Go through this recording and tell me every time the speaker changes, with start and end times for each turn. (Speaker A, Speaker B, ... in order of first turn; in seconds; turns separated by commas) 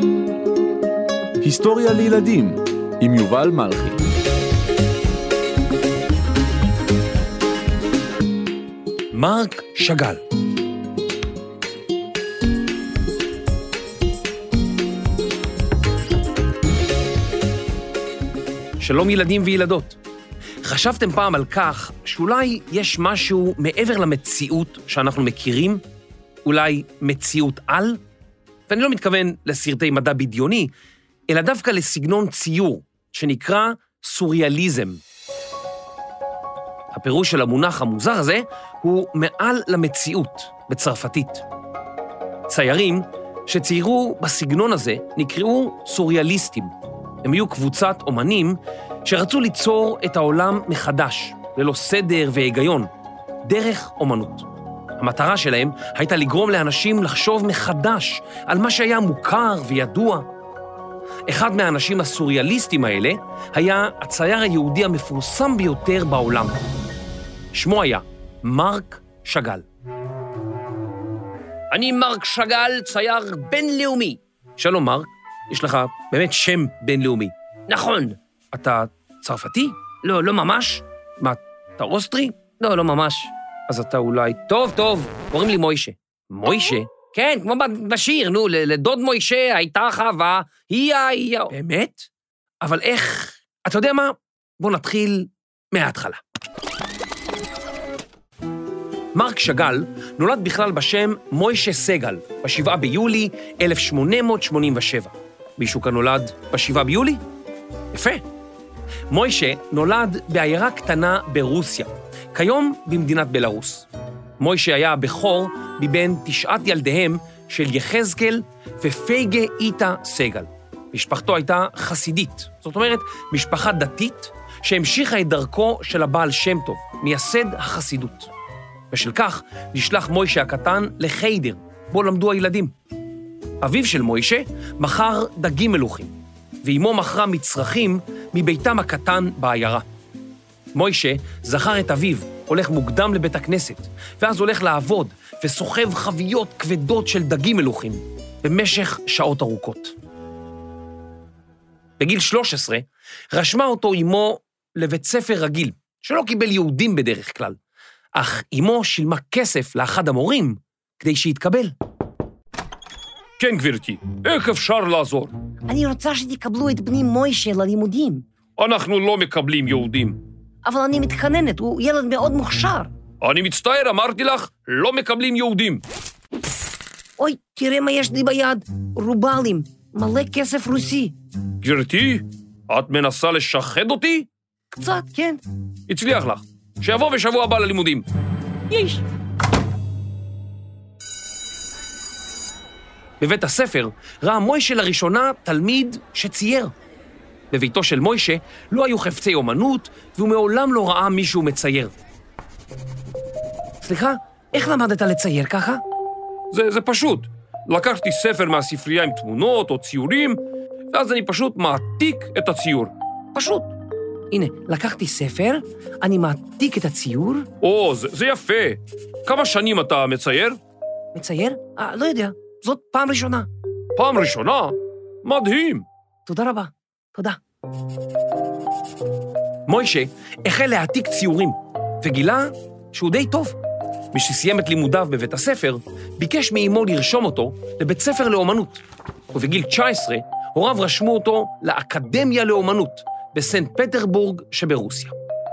Speaker A: 1.4-4.0, Speaker B: 9.1-10.2, Speaker B: 18.8-20.0, Speaker B: 20.6-25.8, Speaker B: 26.4-28.0, Speaker B: 28.7-30.7, Speaker B: 31.3-35.0, Speaker B: 36.9-41.4, Speaker B: 42.5-46.7, Speaker B: 47.2-52.9, Speaker B: 53.4-54.5, Speaker B: 55.0-60.3, Speaker B: 61.3-66.6, Speaker B: 67.5-69.7, Speaker B: 71.7-92.1, Speaker B: 92.6-96.2, Speaker B: 99.1-107.2, Speaker B: 107.9-108.2, Speaker B: 109.1-113.9, Speaker B: 114.4-128.3, Speaker B: 128.9-132.7, Speaker B: 133.6-139.8, Speaker B: 140.8-149.9, Speaker B: 152.0-157.6, Speaker B: 158.1-161.8, Speaker B: 163.4-165.3, Speaker C: 165.7-168.2, Speaker B: 168.6-170.2, Speaker C: 170.6-172.9, Speaker B: 173.2-175.8, Speaker C: 177.2-181.1, Speaker B: 181.6-184.3, Speaker C: 184.7-185.4, Speaker B: 185.9-188.1, Speaker C: 188.7-189.0, Speaker B: 193.2-196.7, Speaker B: 197.5-201.9, Speaker B: 203.8-205.8, Speaker B: 206.5-210.4, Speaker B: 210.9-213.7, Speaker B: 214.3-220.6, Speaker B: 221.1-227.4, Speaker B: 229.7-233.6, Speaker B: 234.1-245.2